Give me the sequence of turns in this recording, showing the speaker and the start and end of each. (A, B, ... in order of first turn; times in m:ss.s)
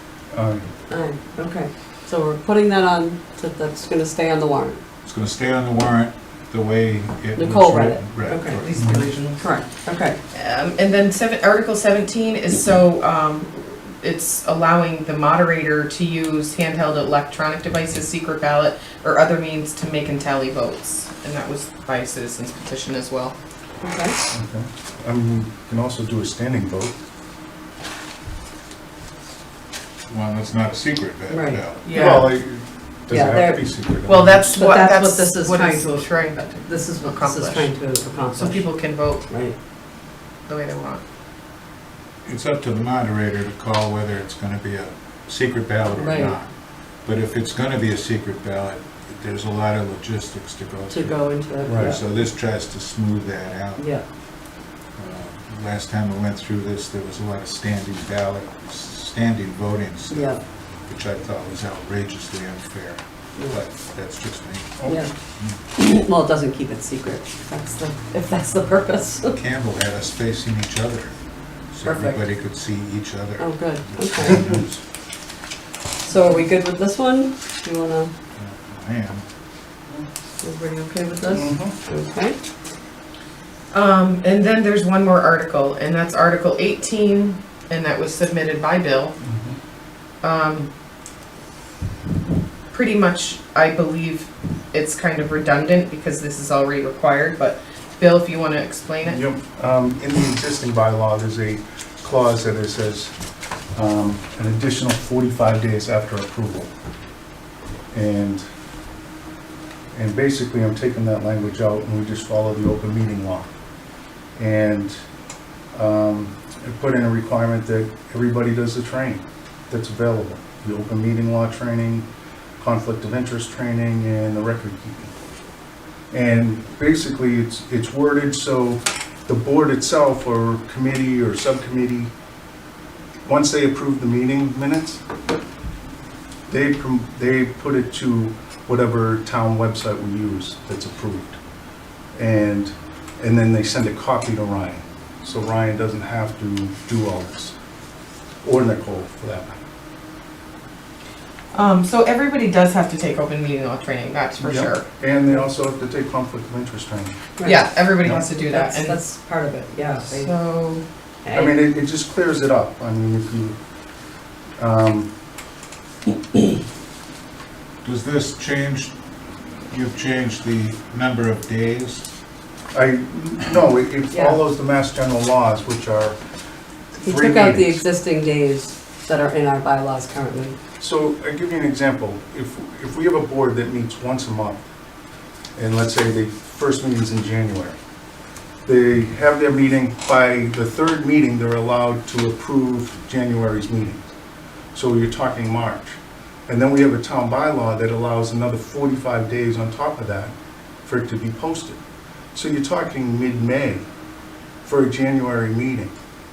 0:00.3-0:00.7 A
0:00.9-0:04.8 B
0:05.0-0:08.7 C
0:07.4-0:08.6 B
0:08.4-0:09.4 D
0:08.8-0:09.1 A
0:09.4-0:10.2 B
0:10.3-0:23.4 D
0:23.8-0:24.2 B
0:24.3-0:26.9 A
0:30.1-0:31.8 C
0:31.3-0:31.6 B
0:31.8-0:32.3 D
0:31.9-0:34.6 A
0:33.1-0:33.6 B
0:34.1-0:37.7 D
0:34.6-0:39.6 B
0:38.4-0:39.2 D
0:40.4-0:41.0 D
0:42.2-0:46.5 C
0:45.9-0:46.4 B
0:47.0-0:51.2 C
0:50.9-0:52.0 B
0:51.6-0:52.0 A
0:51.7-0:53.8 C
0:53.8-0:54.0 B
0:55.0-1:00.3 C
1:00.1-1:00.4 B
1:00.9-1:04.8 C
1:04.8-1:05.1 B
1:05.7-1:09.4 B
1:09.3-1:11.1 C
1:11.7-1:14.8 C
1:11.8-1:12.2 B
1:13.4-1:14.6 B
1:16.0-1:18.1 B
1:18.4-1:19.2 C
1:20.4-1:22.4 B
1:21.3-1:21.8 A
1:23.7-1:29.2 D
1:29.2-1:29.6 A
1:30.2-1:30.7 D
1:32.7-1:39.2 D
1:39.0-1:43.1 A
1:43.7-1:46.7 A
1:47.9-1:48.4 A
1:49.9-1:53.5 A
1:54.4-1:55.0 A
1:55.7-2:02.0 A
2:02.6-2:05.1 A
2:06.1-2:12.1 A
2:13.2-2:15.0 A
2:16.5-2:21.4 A
2:22.2-2:27.5 A
2:28.4-2:29.5 A
2:31.5-2:34.9 D
2:34.4-2:37.2 A
2:37.4-2:37.6 B
2:37.4-2:39.0 D
2:38.4-2:40.3 B
2:40.0-2:40.8 D
2:41.2-2:41.6 B
2:41.3-2:43.6 A
2:44.6-2:45.1 A
2:47.8-2:48.9 C
2:49.7-2:52.1 C
2:52.7-2:56.2 A
2:54.1-2:54.4 B
2:57.0-2:57.8 A
2:57.0-3:00.6 B
3:00.8-3:04.6 A
3:05.6-3:07.8 A
3:08.6-3:14.1 A
3:14.7-3:20.3 A
3:20.8-3:21.8 A
3:22.3-3:23.9 A
3:24.6-3:25.9 A